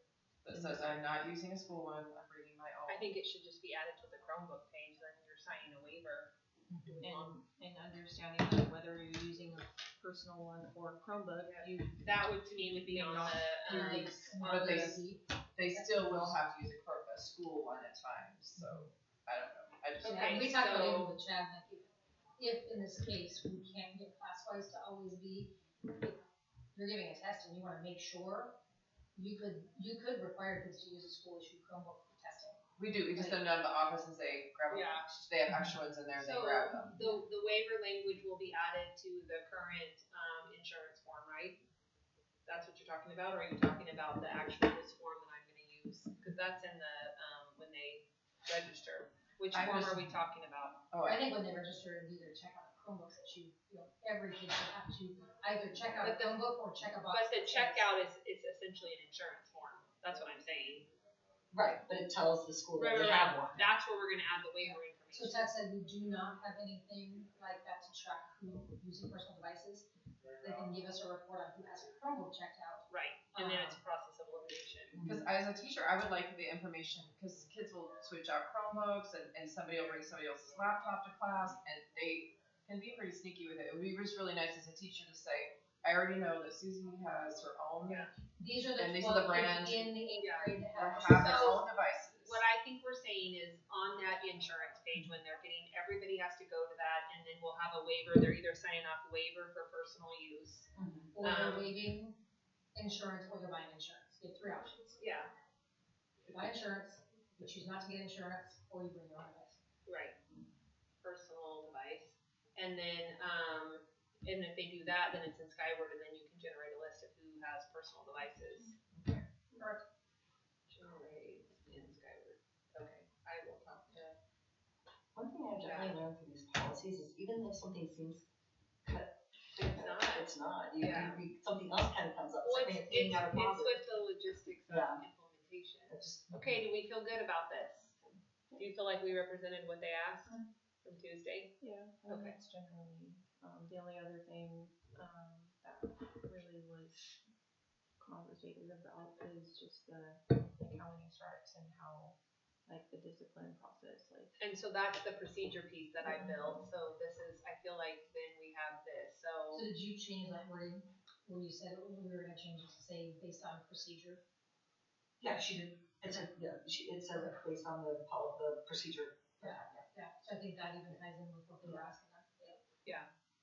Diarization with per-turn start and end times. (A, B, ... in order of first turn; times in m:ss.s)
0:00.4-0:03.1 A
0:00.5-0:01.0 B
0:02.9-0:07.4 C
0:06.7-0:07.0 D
0:07.0-0:14.4 B
0:11.4-0:14.9 C
0:13.7-0:16.4 D
0:14.4-0:15.0 A
0:15.6-0:20.8 A
0:20.0-0:21.2 C
0:20.1-0:26.2 D
0:26.7-0:28.5 D
0:29.2-0:32.6 D
0:32.8-0:36.9 A
0:34.7-0:35.1 C
0:36.2-0:41.6 C
0:36.9-0:37.2 D
0:42.5-0:50.8 C
0:49.5-0:50.0 A
0:50.9-0:51.2 A
0:51.0-0:57.8 D
0:56.0-0:56.4 C
0:57.1-1:00.9 C
1:01.5-1:03.6 E
1:02.8-1:05.5 C
1:04.7-1:09.9 D
1:10.4-1:13.8 D
1:12.9-1:15.0 C
1:14.9-1:15.2 E
1:15.0-1:28.1 A
1:27.8-1:28.1 C
1:28.4-1:31.6 D
1:28.8-1:29.9 A
1:30.2-1:31.7 C
1:30.7-1:32.4 A
1:32.2-1:40.7 C
1:40.8-1:41.1 E
1:41.1-1:42.2 D
1:41.2-1:41.7 C
1:42.8-1:45.0 D
1:45.0-1:45.3 C
1:46.3-1:49.6 D
1:49.8-1:50.2 C
1:51.0-1:58.8 C
1:58.9-1:59.2 E
1:59.5-1:59.8 D
2:00.7-2:04.2 C
2:05.2-2:08.2 E
2:05.6-2:06.0 C
2:08.8-2:13.8 E
2:09.6-2:11.2 C
2:12.4-2:18.0 C
2:14.7-2:15.0 E
2:15.9-2:16.4 E
2:18.6-2:21.5 C
2:21.6-2:27.2 B
2:22.1-2:22.3 C
2:28.0-2:34.3 B
2:34.4-2:39.7 C
2:36.2-2:36.6 D
2:39.5-2:44.2 D
2:45.2-2:49.8 E
2:49.4-2:52.6 D